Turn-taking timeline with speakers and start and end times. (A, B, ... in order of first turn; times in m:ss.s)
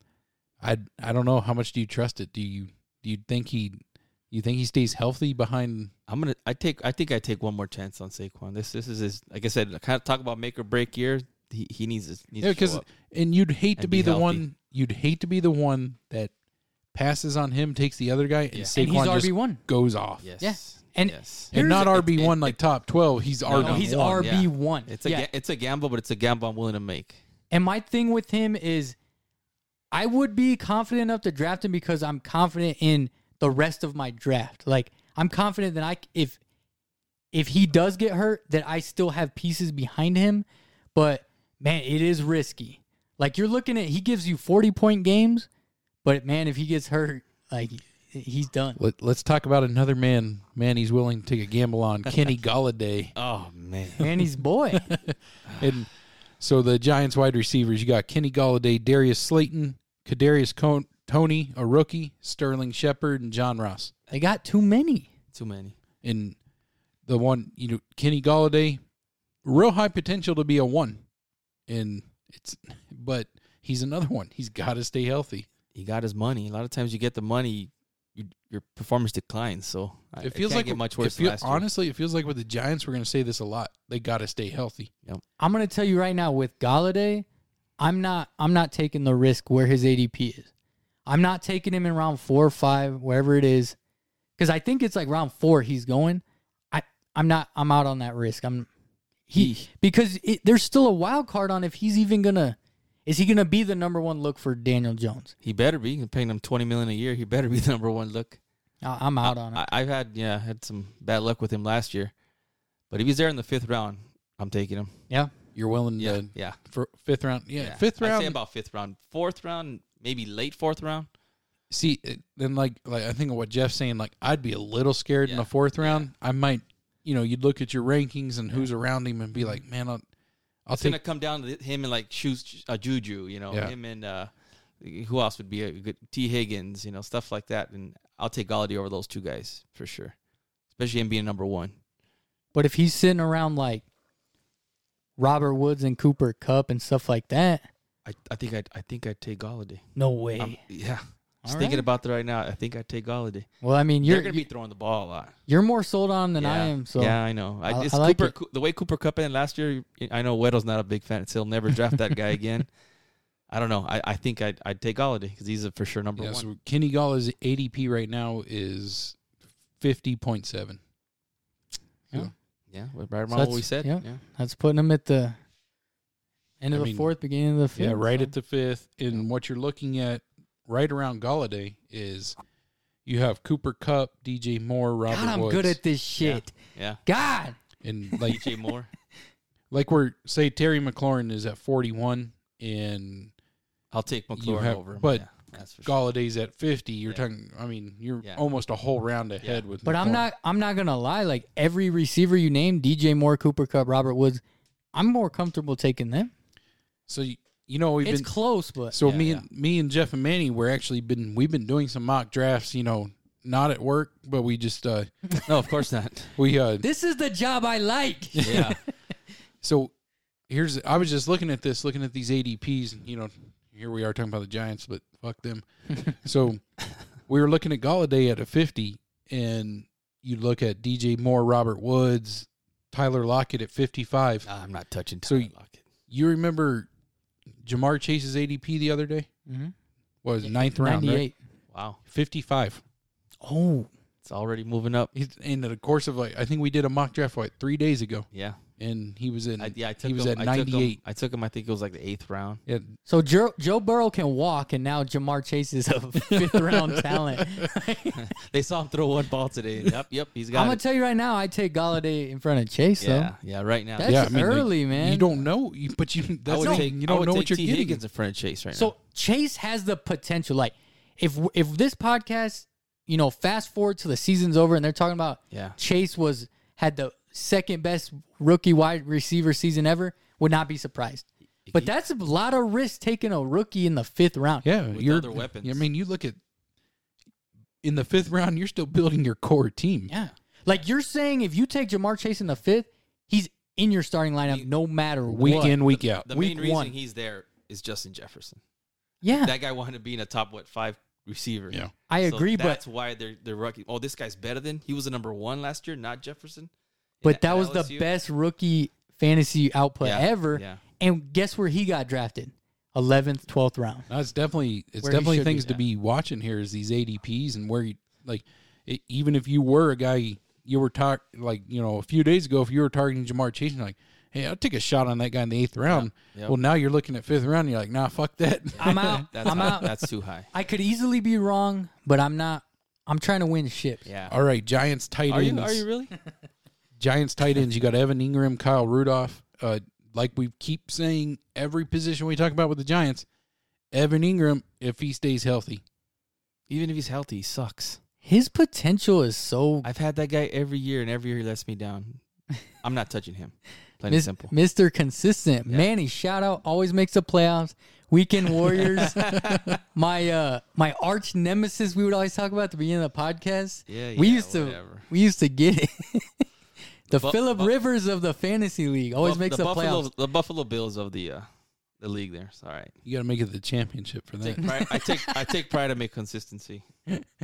0:00.6-0:05.9 A
0:06.1-0:12.9 B
0:12.4-0:16.3 A
0:13.8-0:14.4 B
0:16.9-0:20.3 A
0:18.8-0:19.6 C
0:20.2-0:22.6 B
0:20.4-0:21.9 C
0:21.5-0:24.3 A
0:23.4-0:27.2 B
0:23.6-0:25.3 C
0:27.5-0:29.0 C
0:29.9-0:36.4 C
0:37.3-0:45.5 C
0:46.0-0:48.8 C
0:48.8-0:53.1 A
0:53.2-0:54.1 B
0:54.0-0:54.9 C
0:54.9-0:55.9 A
0:55.5-0:55.7 B
0:56.4-1:03.9 A
1:04.1-1:05.1 C
1:05.3-1:05.8 B
1:06.0-1:06.4 A
1:07.0-1:08.8 A
1:09.4-1:11.0 A
1:11.7-1:15.5 A
1:15.7-1:21.6 B
1:20.2-1:24.9 A
1:25.4-1:27.2 C
1:27.8-1:30.5 C
1:31.0-1:33.8 C
1:34.4-1:38.7 C
1:39.3-1:45.3 C
1:39.3-1:39.7 B
1:45.4-1:48.4 B
1:48.8-1:49.6 C
1:49.2-1:52.1 B
1:52.9-1:55.0 B
1:55.5-1:58.4 A
1:56.0-1:56.6 B
1:57.6-2:01.1 B
2:01.7-2:10.0 A
2:05.2-2:06.1 B
2:10.6-2:11.0 A
2:10.7-2:20.1 B
2:20.7-2:21.8 B
2:22.5-2:23.8 C
2:25.2-2:27.6 C
2:28.0-2:29.8 B
2:30.0-2:30.6 C
2:30.4-2:33.5 B
2:31.4-2:31.8 C
2:33.6-2:34.4 C
2:34.0-2:35.4 B
2:35.5-2:38.3 C
2:36.4-2:42.7 B
2:43.5-2:46.5 B
2:46.2-2:49.2 A
2:49.8-2:50.8 A
2:52.7-2:54.2 B
2:53.3-2:55.4 C
2:56.6-2:58.3 C
2:56.7-2:57.1 A
2:57.8-3:02.4 A
3:03.0-3:05.8 A
3:05.1-3:06.5 C
3:06.2-3:07.0 B
3:07.0-3:07.6 C
3:07.8-3:08.4 A
3:08.2-3:08.9 B
3:09.7-3:13.3 A
3:13.9-3:15.9 B
3:14.4-3:15.3 A
3:15.8-3:20.2 A
3:19.8-3:24.4 C
3:24.9-3:26.3 C
3:27.1-3:28.3 A
3:28.0-3:29.0 C
3:28.9-3:35.1 A
3:29.0-3:29.4 B
3:35.4-3:36.3 B
3:36.4-3:36.8 A
3:36.8-3:38.8 C
3:38.4-3:38.6 A
3:38.4-3:38.8 B
3:39.6-3:39.9 A
3:40.5-3:46.6 A
3:47.3-3:54.5 A
3:54.4-3:55.8 B
3:55.2-3:55.5 A
3:56.1-3:56.9 A
3:57.6-3:59.3 A
3:59.5-3:59.7 C
4:00.2-4:01.2 A
4:00.4-4:01.3 C
4:01.7-4:02.0 B
4:02.1-4:02.8 A
4:03.4-4:03.9 C
4:04.2-4:05.1 B
4:05.1-4:08.2 A
4:08.3-4:08.6 B
4:08.8-4:11.0 A
4:09.6-4:12.6 B
4:12.6-4:12.9 A
4:13.1-4:18.2 C
4:16.2-4:17.7 A
4:18.1-4:20.8 B
4:20.5-4:23.3 C
4:23.0-4:24.3 B
4:24.0-4:25.3 C
4:24.0-4:28.0 A
4:26.5-4:28.9 B
4:26.6-4:26.9 C
4:28.7-4:44.6 C
4:35.5-4:35.8 B
4:44.6-4:46.4 A
4:44.9-4:45.8 B
4:47.8-4:50.1 A
4:50.1-4:56.9 C
4:50.1-4:50.8 B
4:55.3-4:56.2 A
4:55.5-4:58.6 B
4:59.2-4:59.5 C
4:59.3-5:06.7 B
5:02.1-5:02.8 C
5:07.2-5:08.1 B
5:07.2-5:14.1 C
5:10.0-5:10.8 B
5:14.1-5:29.9 A
5:15.0-5:15.8 C
5:25.9-5:26.6 B
5:28.8-5:30.5 B
5:28.8-5:29.9 C
5:30.5-5:34.0 C
5:34.0-5:34.3 B
5:34.3-5:35.8 A
5:35.3-5:36.1 B
5:37.0-5:43.2 A
5:43.9-5:45.8 A
5:46.7-5:48.0 B
5:48.2-5:49.9 C
5:49.8-5:52.2 B
5:52.8-5:54.5 B
5:54.1-5:59.3 C
5:58.8-5:59.8 B
5:59.9-6:06.4 C
6:03.9-6:05.1 B
6:07.1-6:10.0 C
6:07.1-6:07.7 B
6:09.2-6:11.5 B
6:12.0-6:12.9 B
6:13.0-6:14.8 A
6:14.4-6:16.8 B